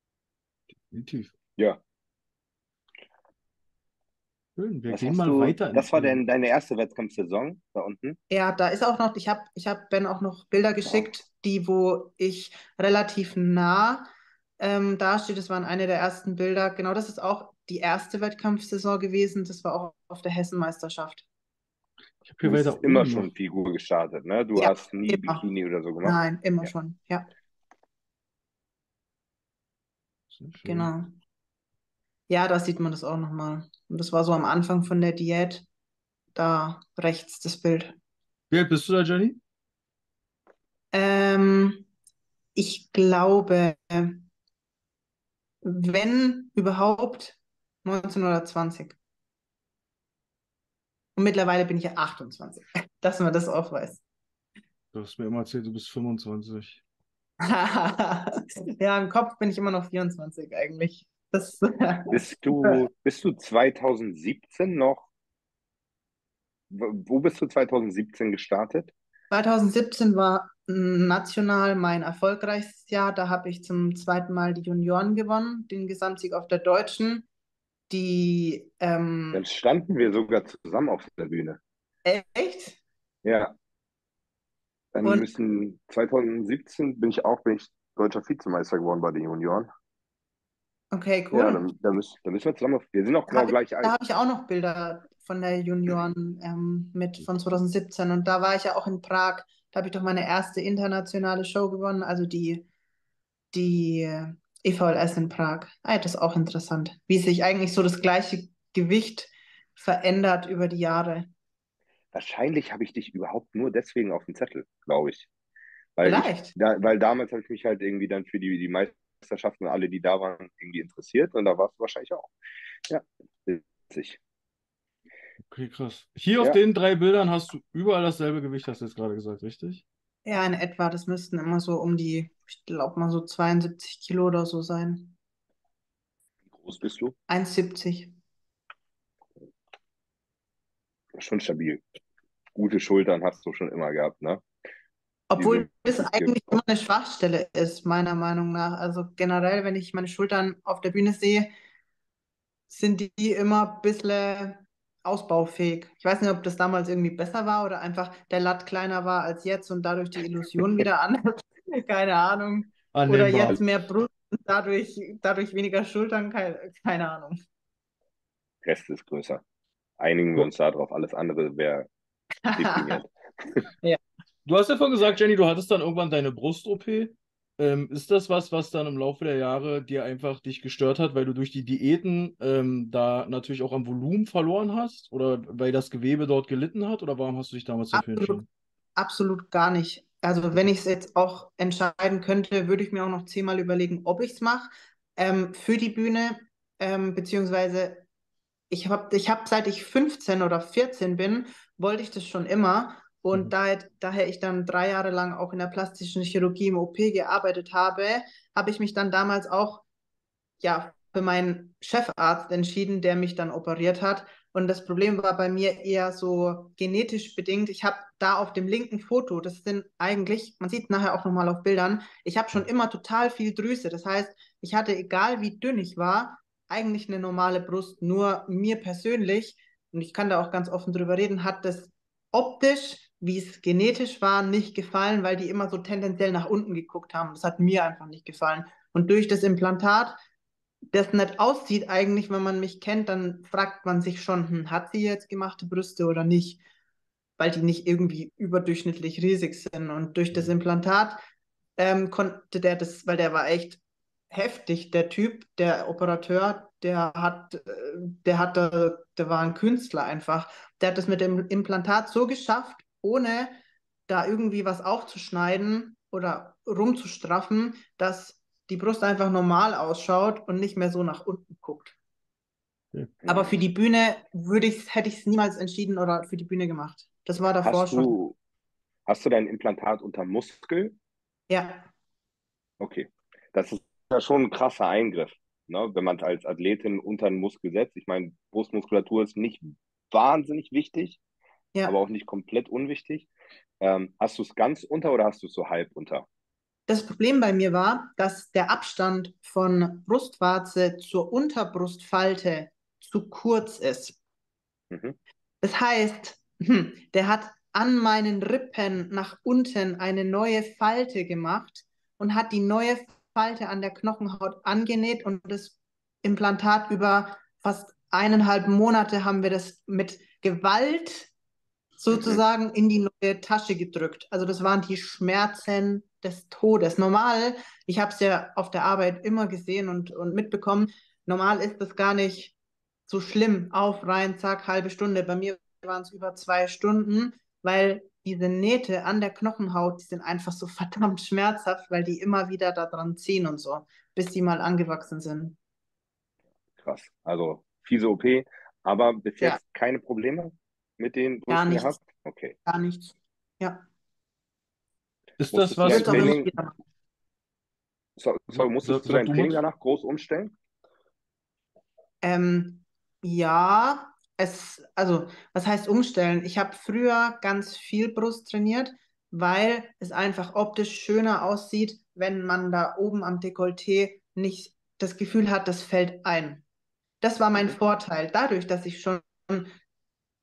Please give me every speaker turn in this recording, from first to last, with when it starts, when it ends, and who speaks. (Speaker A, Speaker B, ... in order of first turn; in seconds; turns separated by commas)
Speaker A: 0.9-1.3, Speaker A: 4.6-6.2, Speaker B: 4.9-8.2, Speaker C: 8.3-21.3, Speaker A: 22.2-23.3, Speaker B: 22.4-26.7, Speaker C: 24.6-25.4, Speaker C: 26.0-27.3, Speaker A: 30.3-30.9, Speaker C: 30.6-31.1, Speaker C: 32.3-35.6, Speaker C: 36.4-38.0, Speaker A: 38.5-39.4, Speaker C: 40.9-41.9, Speaker C: 42.5-44.3, Speaker C: 45.6-49.0, Speaker C: 51.2-54.0, Speaker A: 54.9-56.8, Speaker C: 57.4-62.8, Speaker B: 62.1-65.1, Speaker B: 66.7-68.9, Speaker C: 69.3-77.3, Speaker C: 77.9-79.4, Speaker B: 79.3-81.6, Speaker C: 82.0-82.8, Speaker B: 83.2-83.5, Speaker B: 84.9-89.7, Speaker C: 90.9-91.6, Speaker B: 91.3-94.0, Speaker C: 93.3-102.7, Speaker C: 103.5-111.3, Speaker B: 112.1-115.3, Speaker B: 116.0-122.3, Speaker C: 116.0-116.5, Speaker B: 122.9-124.2, Speaker A: 125.5-129.8, Speaker C: 130.2-135.2, Speaker B: 136.5-137.2, Speaker C: 137.3-138.1, Speaker B: 141.2-141.8, Speaker B: 142.6-144.4, Speaker C: 145.3-151.5, Speaker B: 145.4-146.5, Speaker C: 152.7-167.4, Speaker A: 162.9-163.6, Speaker B: 168.6-169.4, Speaker B: 170.0-171.9, Speaker C: 172.4-173.0, Speaker B: 172.5-173.6, Speaker A: 174.5-188.5, Speaker C: 187.9-188.4, Speaker C: 189.0-198.1, Speaker C: 198.7-209.8, Speaker C: 210.6-240.2, Speaker C: 240.9-246.6, Speaker C: 247.4-251.2, Speaker C: 251.8-253.8, Speaker C: 254.3-271.9, Speaker B: 273.2-273.6, Speaker C: 273.3-278.1, Speaker B: 277.6-278.4, Speaker B: 279.1-280.9, Speaker C: 281.5-281.9, Speaker B: 282.8-291.2, Speaker B: 291.9-293.3, Speaker B: 293.8-296.3, Speaker C: 296.9-304.2, Speaker B: 304.9-305.2, Speaker C: 305.6-321.3, Speaker C: 322.0-332.6, Speaker B: 322.1-322.4, Speaker C: 333.1-345.6, Speaker B: 346.8-352.6, Speaker C: 351.5-352.0, Speaker C: 352.7-353.8, Speaker A: 355.4-356.4, Speaker B: 355.5-356.5, Speaker C: 355.8-356.7, Speaker B: 358.2-360.5, Speaker A: 358.5-359.6, Speaker C: 362.2-376.6, Speaker C: 377.2-379.8